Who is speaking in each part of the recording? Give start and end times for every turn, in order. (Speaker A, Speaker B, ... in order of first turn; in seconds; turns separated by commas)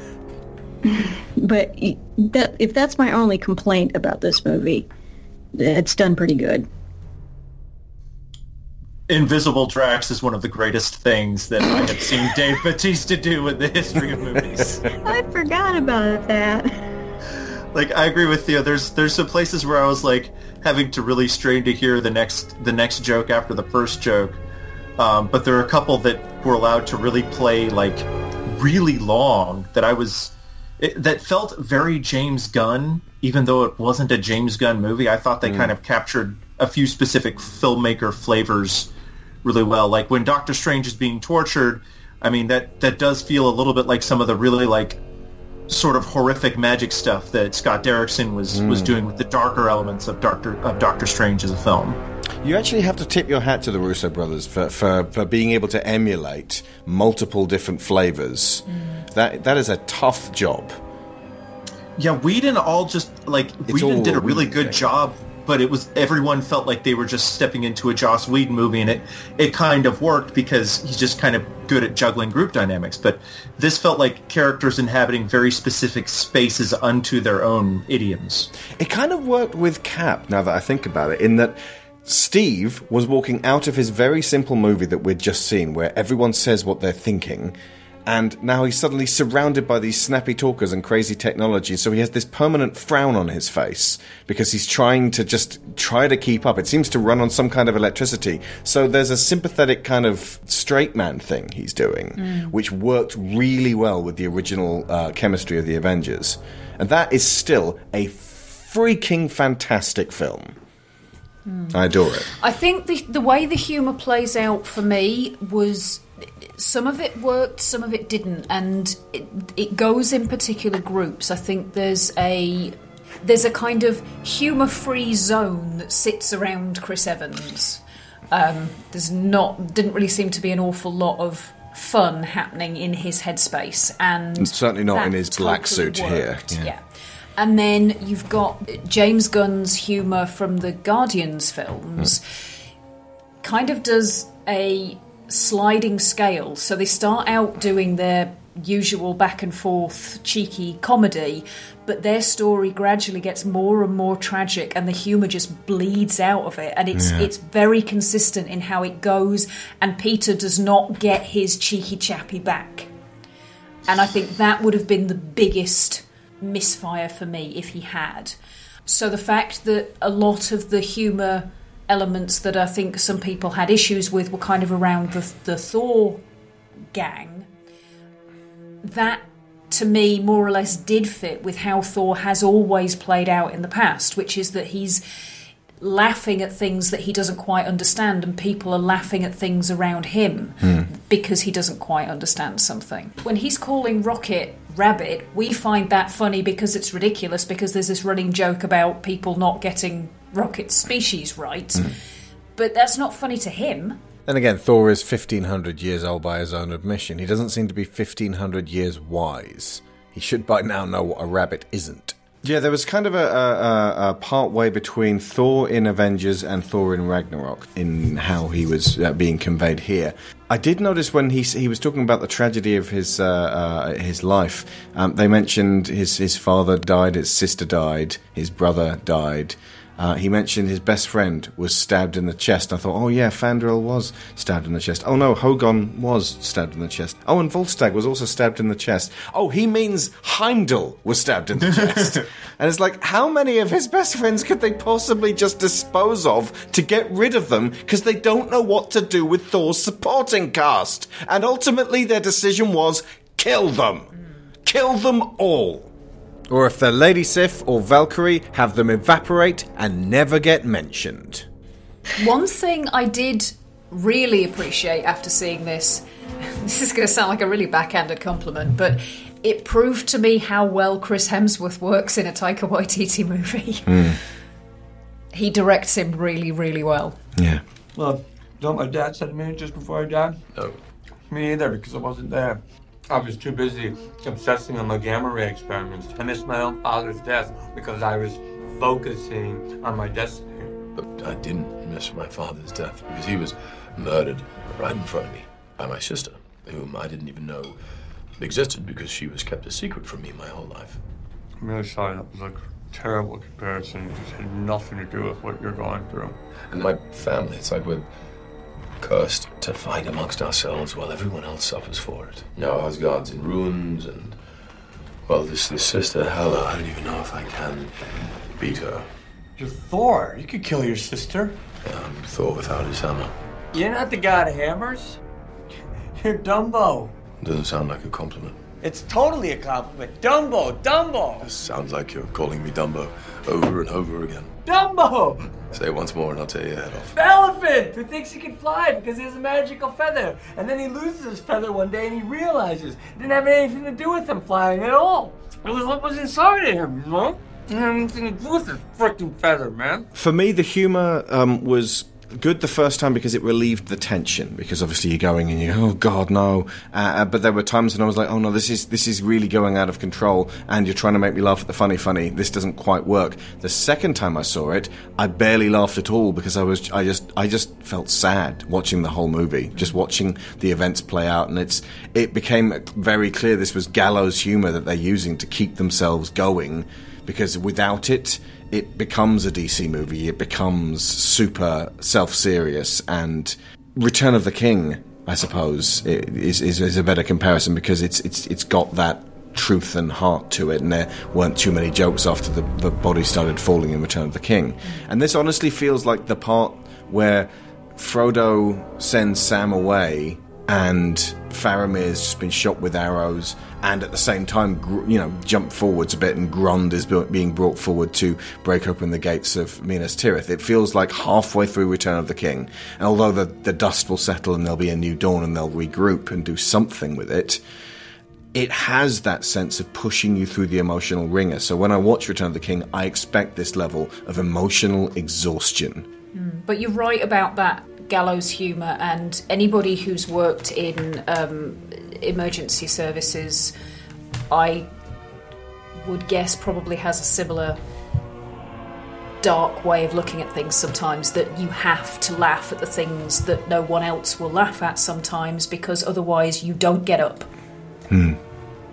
Speaker A: 0.8-4.9, Speaker A: 5.5-6.7, Speaker B: 9.1-14.8, Speaker A: 15.0-16.8, Speaker B: 17.7-24.4, Speaker B: 25.0-38.9, Speaker C: 35.4-35.7, Speaker B: 39.4-45.0, Speaker B: 45.7-52.0, Speaker C: 48.5-48.9, Speaker C: 52.4-60.8, Speaker D: 58.8-59.0, Speaker B: 62.0-78.5, Speaker C: 63.7-64.8, Speaker C: 78.8-87.5, Speaker C: 88.1-110.5, Speaker D: 102.2-102.5, Speaker D: 111.5-136.8, Speaker C: 111.7-112.3, Speaker C: 134.4-136.7, Speaker D: 137.4-142.2, Speaker D: 143.4-162.9, Speaker C: 156.9-157.3, Speaker D: 163.9-176.2, Speaker D: 176.9-177.5, Speaker D: 178.8-185.0, Speaker D: 185.8-201.9, Speaker C: 190.6-190.9, Speaker D: 202.6-204.0, Speaker C: 204.3-254.1, Speaker C: 254.6-255.9, Speaker C: 256.5-261.5, Speaker D: 262.2-273.9, Speaker C: 273.9-274.2, Speaker D: 275.3-277.2, Speaker C: 277.4-277.6, Speaker E: 277.9-280.4, Speaker E: 281.3-290.7, Speaker F: 290.9-297.8, Speaker F: 298.4-301.0, Speaker E: 301.6-306.4, Speaker F: 306.7-308.1, Speaker F: 309.0-314.4, Speaker F: 315.3-319.1, Speaker E: 319.6-321.6, Speaker F: 321.8-323.3, Speaker E: 323.7-325.2, Speaker E: 326.2-327.1, Speaker F: 327.4-328.6, Speaker E: 328.8-331.5, Speaker F: 331.4-334.5, Speaker E: 334.6-335.5, Speaker F: 335.7-337.1, Speaker E: 337.1-350.1, Speaker C: 350.1-417.6, Speaker C: 418.5-426.1, Speaker D: 426.3-433.7, Speaker D: 434.5-434.9, Speaker D: 436.0-437.8, Speaker D: 439.4-447.5, Speaker C: 448.1-448.4